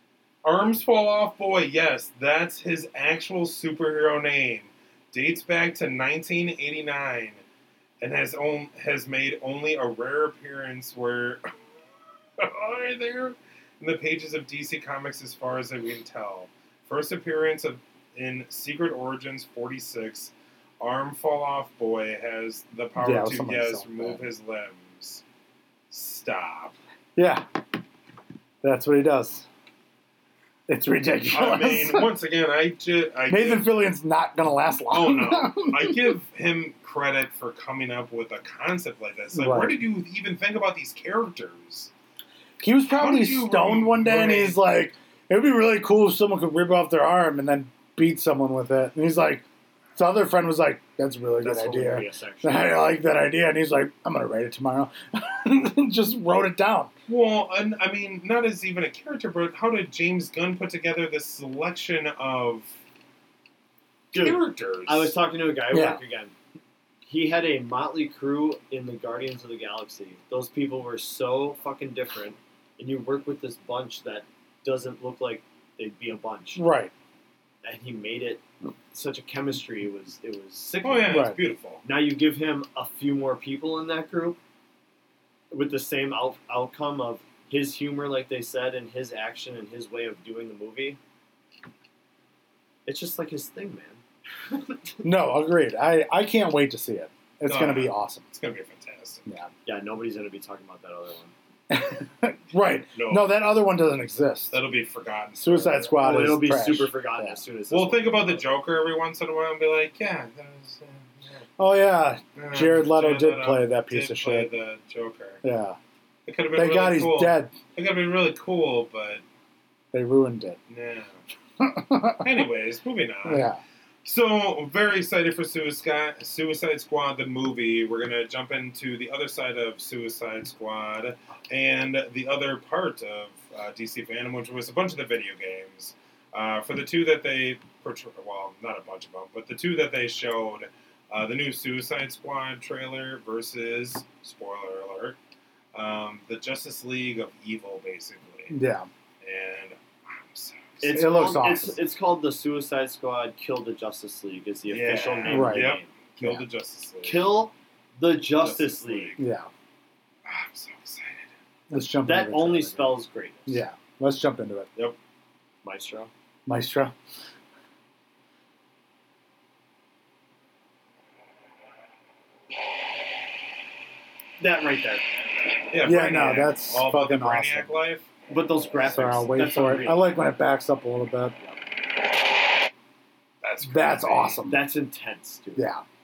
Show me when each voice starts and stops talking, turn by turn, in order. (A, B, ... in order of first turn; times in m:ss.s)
0:00.4-0:07.4 A
0:08.0-0:11.5 A
0:12.4-0:25.2 A
0:23.0-0:24.2 B
0:25.9-0:26.8 A
0:27.2-0:27.4 B
0:28.6-0:29.5 B
0:30.7-0:32.1 B
0:31.3-0:33.8 A
0:33.3-0:36.2 B
0:34.9-0:41.9 A
0:39.3-0:39.8 B
0:42.6-0:49.4 B
0:42.9-0:44.6 A
0:50.0-0:56.9 B
0:51.4-0:52.8 C
0:57.1-1:02.8 A
1:04.1-1:06.3 C
1:04.1-1:05.2 A
1:05.7-1:06.0 B
1:07.0-1:16.6 C
1:16.6-1:16.9 B
1:17.6-1:21.2 C
1:20.8-1:21.8 A
1:21.1-1:21.4 B
1:21.8-1:24.4 C
1:25.5-1:31.0 C
1:32.8-1:34.9 C
1:35.0-1:38.3 B
1:37.4-1:39.2 A
1:39.2-1:39.5 B
1:39.6-1:41.3 C
1:41.7-1:44.6 B
1:42.9-1:43.4 A
1:44.5-1:46.4 A
1:45.4-1:47.4 B
1:46.0-1:48.5 C
1:47.7-1:51.5 A
1:51.6-1:54.5 B
1:52.4-1:55.4 A
1:55.4-1:55.8 B
1:56.2-1:59.2 A
1:56.5-1:57.6 B
1:59.9-2:00.6 B
2:00.7-2:01.2 A
2:01.6-2:02.3 B
2:02.2-2:03.5 A
2:03.2-2:03.6 B
2:04.0-2:25.2 A
2:25.7-2:28.6 A
2:28.5-2:28.9 B
2:29.2-2:31.0 A
2:30.8-2:35.9 C
2:30.8-2:31.8 B
2:34.7-2:37.4 A
2:35.3-2:36.4 B
2:37.0-2:39.1 C
2:38.4-2:39.2 A
2:39.2-2:39.5 B
2:40.2-2:41.3 A
2:41.7-2:44.7 B
2:42.0-2:43.6 C
2:45.6-2:46.1 C
2:46.4-2:46.9 B
2:54.4-2:55.0 C
2:55.7-2:58.1 A
2:55.8-2:57.8 B
2:58.3-3:00.2 C
2:58.9-3:01.4 B
3:03.4-3:04.4 A
3:03.6-3:04.6 B
3:04.4-3:05.7 C
3:05.6-3:05.8 B